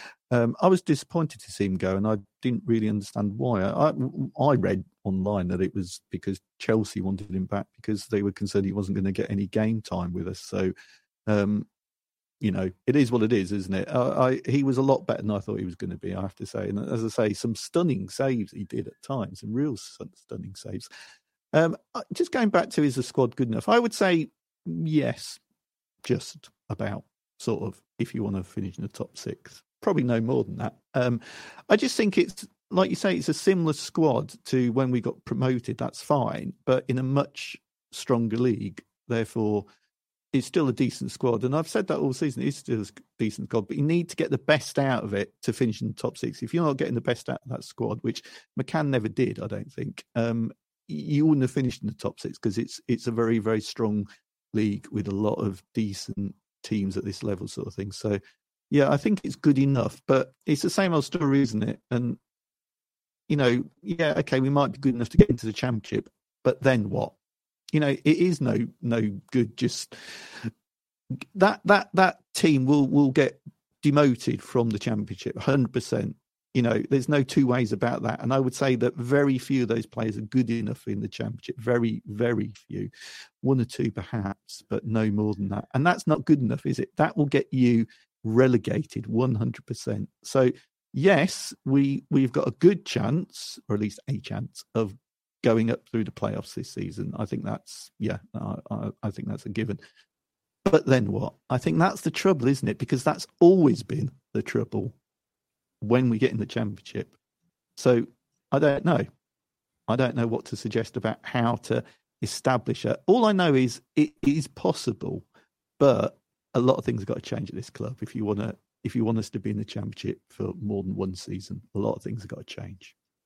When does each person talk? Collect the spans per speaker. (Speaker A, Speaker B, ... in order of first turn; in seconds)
Speaker A: 0.3-10.7, 11.3-11.7, 12.4-20.9, 21.5-25.4, 26.0-39.7, 40.3-58.2, 58.7-62.2, 63.3-67.1, 67.7-70.5, 71.3-82.9, 83.4-99.8, 100.6-104.9, 105.8-107.1, 107.8-109.1, 109.9-115.2, 115.8-122.9